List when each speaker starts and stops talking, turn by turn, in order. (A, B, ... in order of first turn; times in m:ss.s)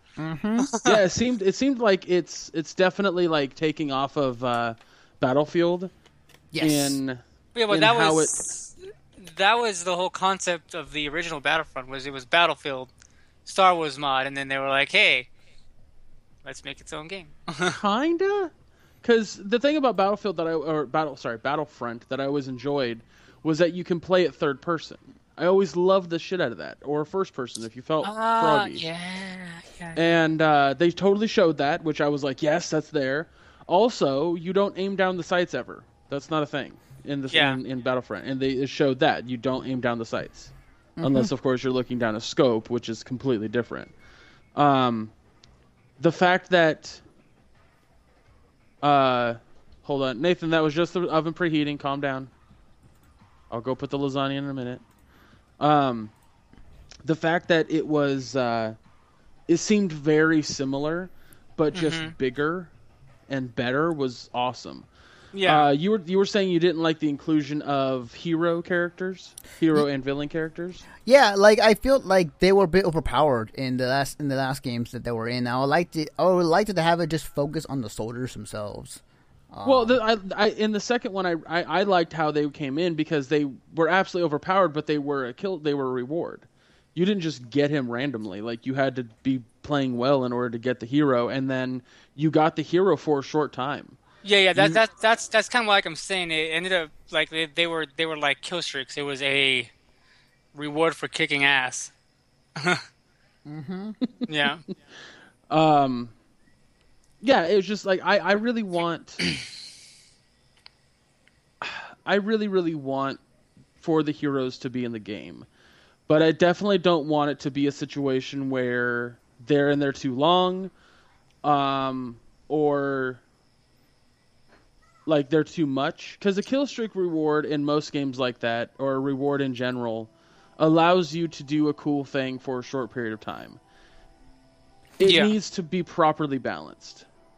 0:00.2-0:00.7 A
0:00.6-0:01.0 B
0:00.8-0:05.9 C
0:06.5-0:07.0 A
0:06.6-0:08.5 C
0:07.6-0:12.9 B
0:13.5-0:15.3 B
0:16.4-0:17.8 B
0:17.7-0:18.5 C
0:19.0-0:28.8 C
0:28.0-0:30.0 B
0:30.0-0:43.9 C
0:37.3-0:37.6 B
0:41.0-0:41.3 A
0:44.6-0:45.1 C
0:46.0-0:47.0 C
0:48.8-0:52.3 C
0:53.5-0:54.8 C
0:55.6-0:56.1 C
0:57.0-0:58.8 C
0:59.5-1:02.7 C
1:01.7-1:02.1 B
1:03.3-1:04.9 C
1:05.3-1:05.7 B
1:05.4-1:10.9 C
1:11.1-1:20.0 A
1:19.6-1:34.0 C
1:34.2-1:39.7 B
1:40.5-1:41.9 B
1:42.6-1:42.8 B
1:43.5-1:44.0 A
1:44.0-1:44.5 C
1:44.3-1:44.6 B
1:45.5-1:46.1 C
1:47.2-1:49.2 C
1:51.6-1:53.2 C
1:53.8-1:55.5 C
1:56.1-2:00.7 C
2:01.4-2:03.2 C
2:05.1-2:13.6 C
2:15.0-2:17.1 C
2:15.0-2:15.3 B